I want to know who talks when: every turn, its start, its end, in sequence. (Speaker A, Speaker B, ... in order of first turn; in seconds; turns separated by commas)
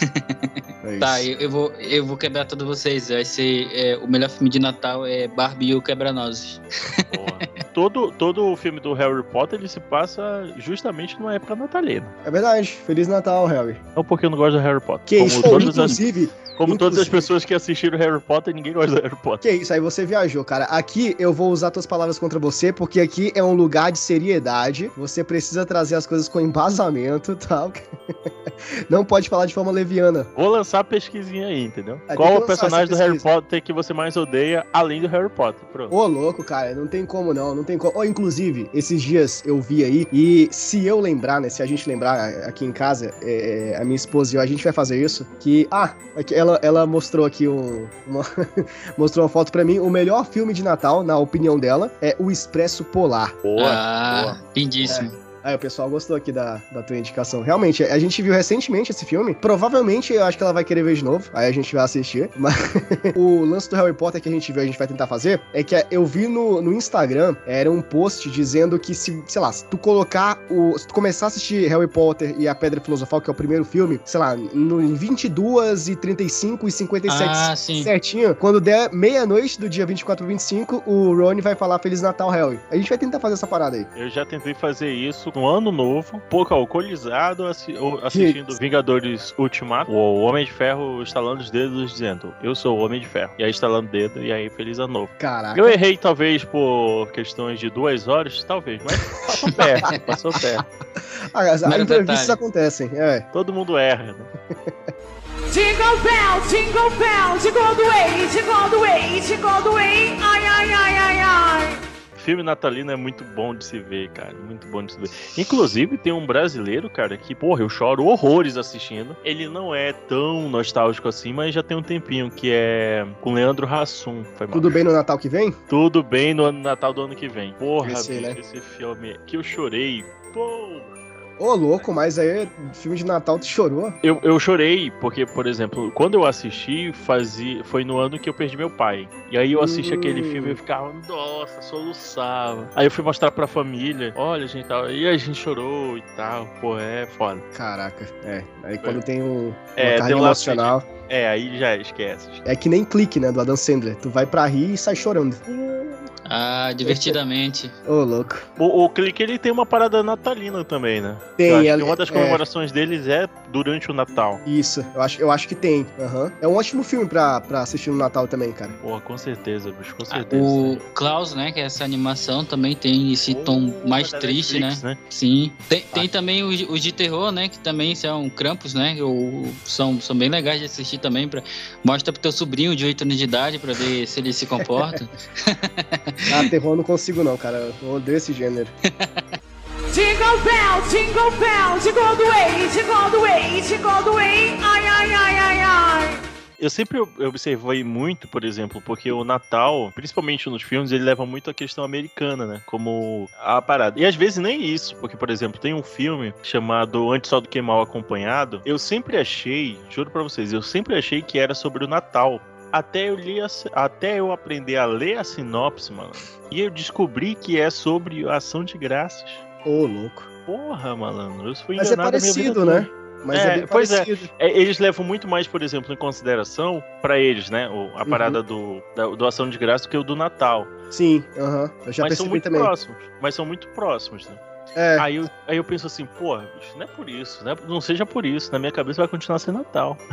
Speaker A: 0.1-7.0, Speaker B: 0.8-1.3, Speaker C: 7.1-12.1, Speaker B: 12.2-13.8, Speaker C: 14.0-19.4, Speaker B: 15.1-17.3, Speaker B: 19.4-30.3, Speaker C: 30.4-36.0, Speaker B: 32.1-33.2, Speaker B: 35.9-53.4, Speaker C: 53.4-55.0, Speaker A: 53.6-55.1, Speaker B: 54.9-83.9, Speaker A: 77.1-77.9, Speaker C: 84.0-100.7, Speaker B: 88.1-88.6, Speaker B: 95.2-95.8, Speaker B: 101.2-103.3, Speaker A: 101.7-102.4, Speaker C: 103.3-104.3, Speaker B: 104.5-104.8, Speaker D: 105.5-111.8, Speaker C: 112.2-124.7, Speaker B: 124.5-125.6, Speaker C: 125.7-131.1, Speaker B: 127.8-128.4, Speaker B: 131.4-134.0, Speaker C: 134.0-147.4, Speaker B: 139.6-140.6, Speaker B: 147.5-150.9, Speaker C: 149.8-152.4, Speaker B: 152.4-155.4, Speaker C: 155.5-156.1, Speaker A: 156.3-157.7, Speaker B: 156.9-157.2, Speaker B: 157.9-158.5, Speaker C: 158.6-164.4, Speaker B: 161.4-162.4, Speaker B: 164.5-168.8, Speaker C: 168.8-170.8, Speaker A: 170.1-186.3, Speaker C: 173.3-175.0, Speaker B: 186.3-188.7, Speaker A: 189.0-189.3, Speaker D: 189.9-196.2, Speaker C: 196.6-219.4, Speaker B: 219.7-220.3, Speaker C: 220.5-230.7, Speaker B: 221.8-224.3, Speaker B: 228.1-228.4, Speaker B: 230.9-232.7, Speaker C: 232.0-234.4, Speaker B: 234.8-235.1, Speaker C: 235.0-240.0